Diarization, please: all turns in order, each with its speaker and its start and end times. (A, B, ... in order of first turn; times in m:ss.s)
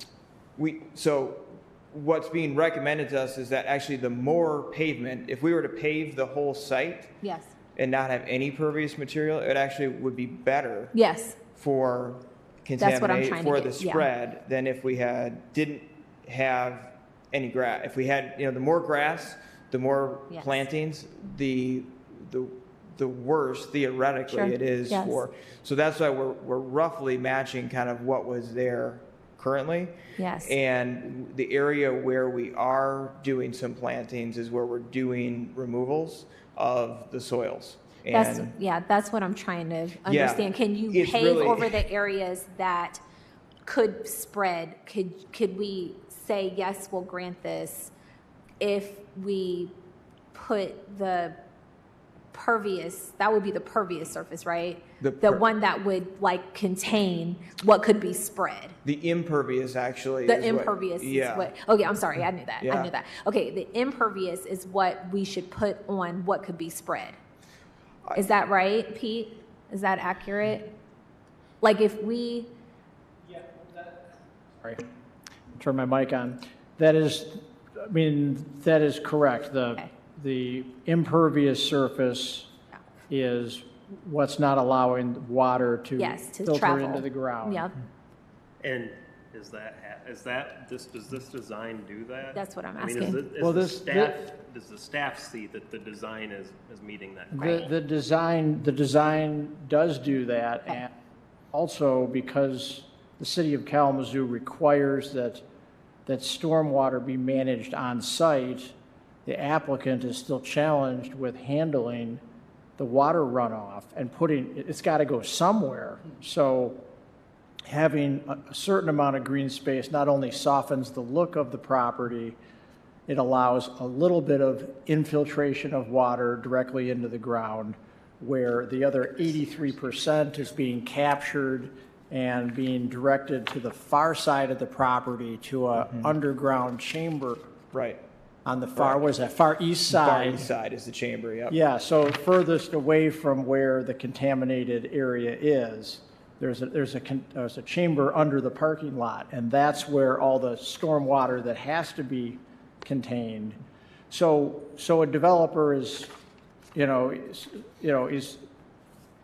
0:00.6-0:07.1 A
0:07.2-0:07.5 B
0:07.8-0:11.0 A
0:10.9-0:11.4 B
0:11.6-0:38.5 A
0:12.8-0:14.1 B
0:20.3-0:20.6 B
0:24.3-0:25.2 B
0:30.2-0:30.6 B
0:38.1-0:43.0 B
0:40.1-0:41.8 A
0:43.6-0:47.9 B
0:48.6-0:49.8 B
0:50.3-0:51.4 B
0:52.3-0:58.8 B
0:55.0-0:55.4 A
0:58.8-1:01.5 A
1:00.3-1:07.2 B
1:02.6-1:02.9 A
1:08.1-1:10.7 B
1:11.6-1:12.5 B
1:15.6-1:22.5 C
1:23.1-1:27.7 C
1:26.0-1:27.7 B
1:28.6-1:37.7 D
1:32.3-1:33.2 B
1:33.4-1:34.2 C
1:37.3-1:40.9 C
1:41.5-1:45.4 C
1:46.1-1:52.2 C
1:52.8-1:56.8 C
1:57.7-2:02.4 C
2:03.1-2:17.5 C
2:17.7-2:18.0 A
2:18.4-2:20.5 C
2:18.8-2:19.0 A
2:19.9-2:21.6 A
2:21.5-2:36.1 C
2:36.8-2:38.4 C